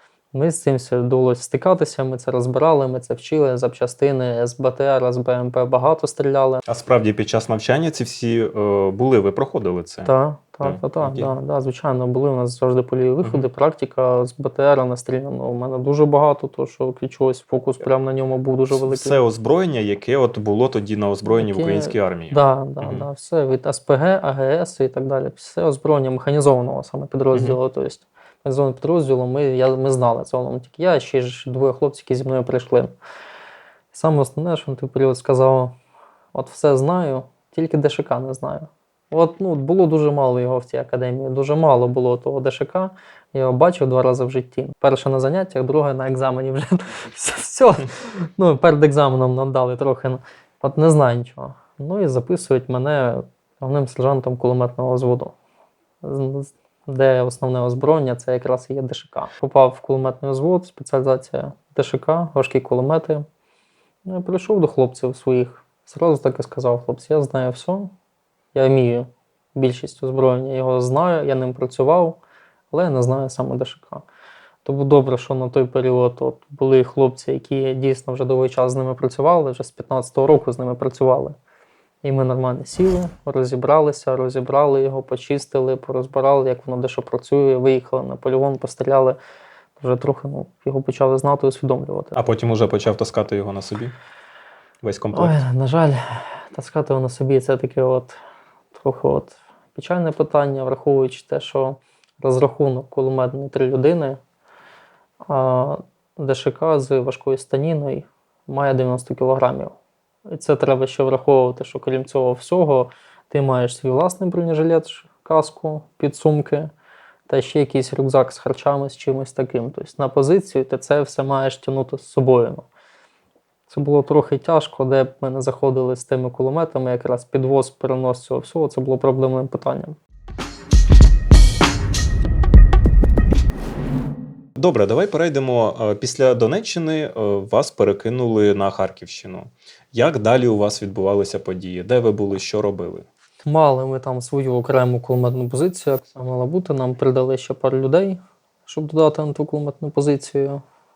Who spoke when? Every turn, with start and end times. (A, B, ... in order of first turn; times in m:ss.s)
0:00.3-0:06.6 A
0:06.7-0:10.1 B
0:10.0-0:19.2 A
0:10.6-0:11.3 B
0:18.8-0:23.1 B
0:21.2-0:32.9 A
0:33.9-0:35.8 A
0:36.3-0:55.3 A
0:56.0-1:03.2 A
1:04.0-1:07.9 A
1:08.5-1:12.2 A
1:12.7-1:14.0 A
1:14.6-1:21.4 A
1:22.0-1:29.2 A
1:29.8-1:32.2 A
1:32.1-1:33.9 B
1:34.8-1:35.4 B
1:35.1-1:38.2 A
1:38.7-1:44.2 A
1:45.2-1:49.7 A
1:50.3-1:56.7 A
1:57.3-2:02.7 A
2:03.7-2:10.0 A
2:14.6-2:23.1 B
2:23.4-2:30.6 A